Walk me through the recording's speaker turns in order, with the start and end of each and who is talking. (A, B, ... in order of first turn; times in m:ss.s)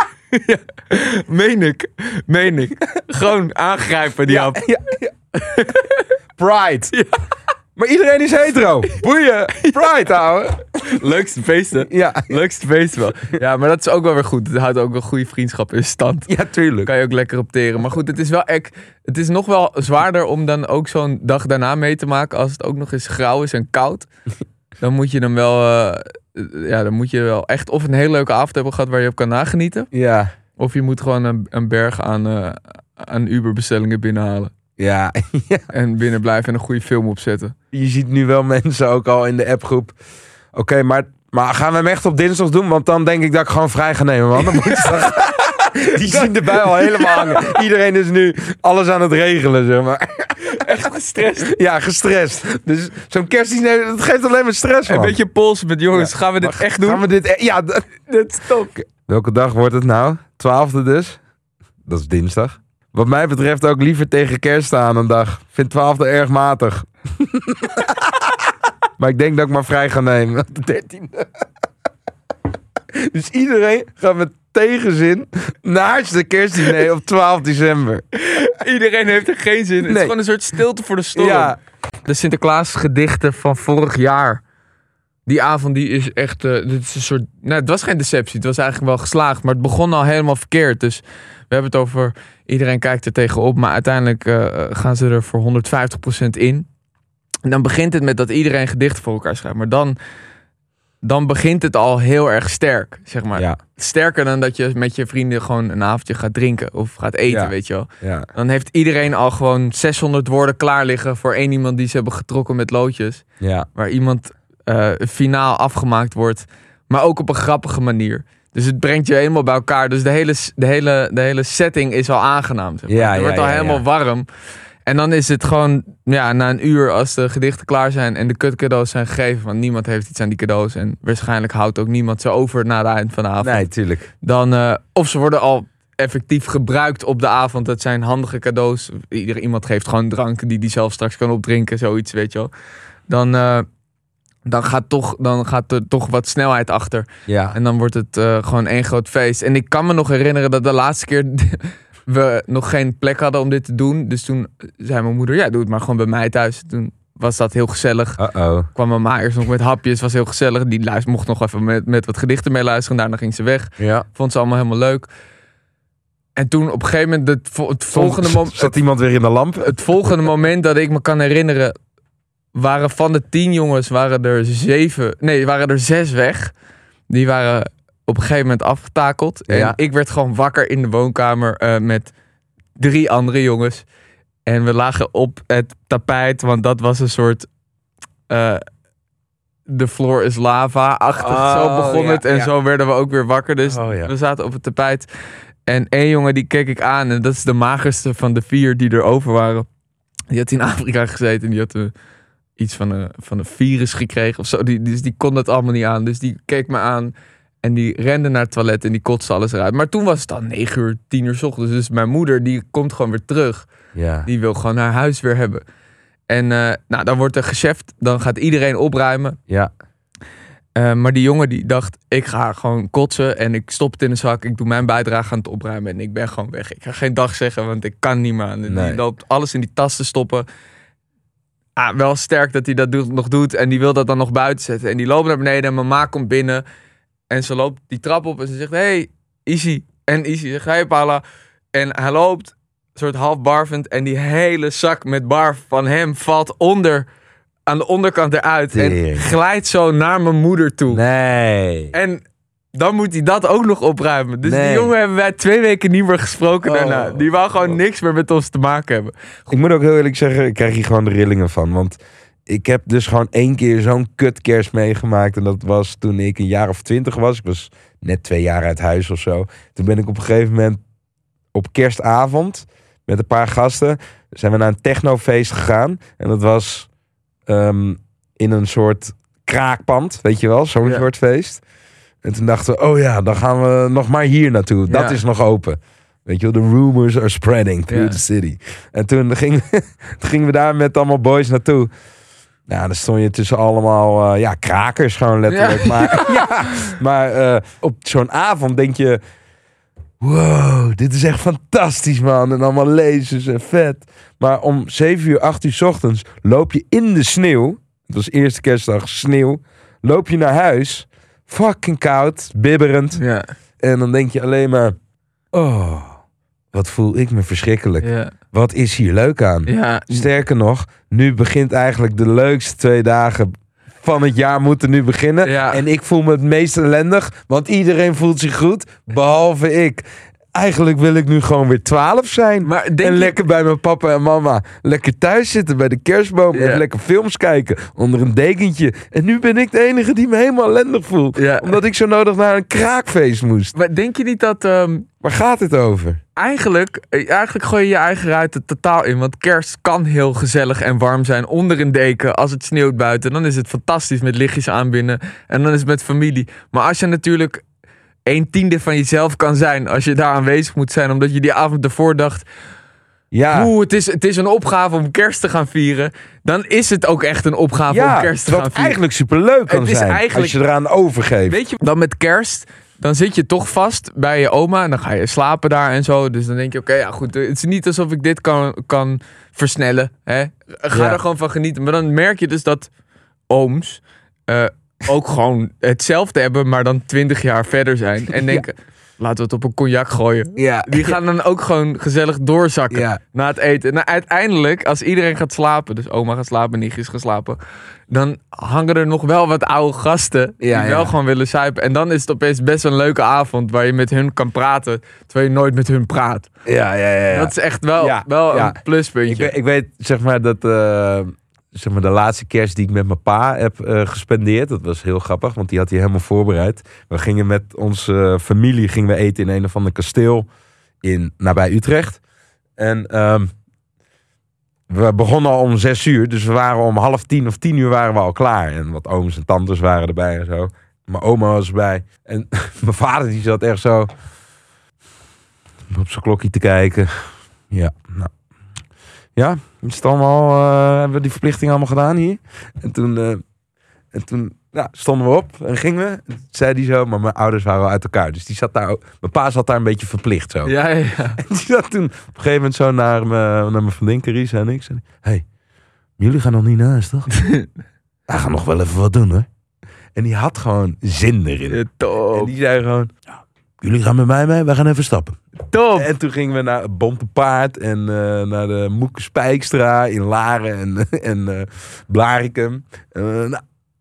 0:00.3-0:04.6 A
0:04.3-0:05.1 B
0:05.4-0:06.0 A
0:06.4-0:06.9 B
0:07.8-0:10.6 B
0:10.8-0:16.3 A
0:11.9-0:12.4 B
0:16.3-0:16.9 B
0:16.8-0:24.1 A
0:24.8-0:29.9 A
0:29.9-0:30.3 B
0:30.6-0:34.5 A
0:34.8-0:35.7 B
0:35.7-0:37.6 A
0:37.7-0:40.0 B
0:40.5-0:50.5 B
0:44.4-0:47.6 A
0:50.4-0:51.5 A
0:51.5-0:55.2 B
0:54.9-0:57.0 A
0:55.9-0:57.8 B
0:58.1-0:58.7 A
0:58.8-1:01.2 B
1:01.9-1:08.4 B
1:09.0-1:11.3 B
1:12.9-1:18.0 B
1:18.2-1:24.4 A
1:19.8-1:20.2 B
1:21.2-1:21.6 B
1:25.3-1:36.7 A
1:37.4-1:40.0 A
1:41.0-1:53.2 A
1:47.3-1:48.3 B
1:53.4-1:53.7 B
1:53.8-2:04.3 A
2:02.9-2:03.8 B
2:04.9-2:13.7 A
2:13.4-2:14.1 B
2:14.2-2:22.5 A
2:23.1-2:23.7 A
2:24.5-2:38.2 A
2:27.3-2:27.6 B
2:38.2-2:38.7 B
2:38.8-2:45.1 A
2:43.8-2:44.0 B
2:46.4-2:48.8 A
2:47.9-2:50.1 B
2:49.6-2:51.8 A
2:52.5-2:56.5 A
2:57.1-3:02.1 A
2:59.5-2:59.8 B
3:02.8-3:03.8 A
3:04.5-3:07.5 A
3:08.3-3:08.6 A
3:09.7-3:15.1 A
3:11.2-3:12.5 B
3:13.6-3:14.1 B
3:15.7-3:19.7 A
3:20.3-3:21.9 A
3:22.6-3:33.7 A
3:34.0-3:34.3 B
3:34.3-3:35.6 A
3:36.3-3:39.4 A
3:40.8-3:50.5 A
3:48.7-3:49.0 B
3:51.8-3:56.6 A
3:57.3-4:01.2 A
4:01.7-4:07.1 A
4:07.7-4:11.0 A
4:08.7-4:09.2 B
4:10.9-4:11.9 B
4:11.9-4:12.2 A
4:12.7-4:19.1 A
4:14.4-4:14.9 B
4:16.6-4:17.8 B
4:19.5-4:30.8 B
4:31.5-4:36.9 B
4:37.5-4:41.6 B
4:42.2-4:51.9 B
4:44.9-4:45.2 A
4:47.9-4:48.2 A
4:52.7-4:59.2 B
4:55.5-4:56.9 A
5:00.2-5:13.2 B
5:13.2-5:13.5 A
5:13.8-5:15.0 B
5:15.5-5:16.2 B
5:16.7-5:43.7 B
5:18.0-5:18.3 A
5:19.7-5:20.3 A
5:25.4-5:25.8 A
5:32.6-5:33.4 A
5:36.5-5:36.8 A
5:41.4-5:41.8 A
5:43.8-5:45.1 A
5:45.2-5:46.2 B
5:46.4-5:57.6 A
5:58.3-6:02.5 A
6:03.3-6:03.7 B
6:03.5-6:09.0 A
6:07.9-6:11.6 B
6:09.7-6:10.6 A
6:11.5-6:22.9 A
6:20.9-6:21.2 B
6:23.5-6:37.6 A
6:28.3-6:28.6 B
6:30.6-6:31.2 B
6:32.9-6:33.2 B
6:38.1-6:46.5 A
6:40.6-6:41.1 B
6:46.6-7:00.5 B
6:47.3-6:49.6 A
7:01.0-7:02.2 B
7:02.8-7:03.5 B
7:04.9-7:14.1 B
7:15.9-7:18.3 B
7:19.4-7:23.4 B
7:24.1-7:30.8 B
7:30.6-7:31.4 A
7:31.4-7:35.4 B
7:36.2-7:37.3 B
7:37.3-7:37.7 A
7:38.3-7:39.5 B
7:40.2-7:41.8 B
7:41.7-7:42.5 A
7:42.3-7:43.2 B
7:43.8-7:45.4 B
7:45.7-7:46.1 A
7:46.0-7:53.6 B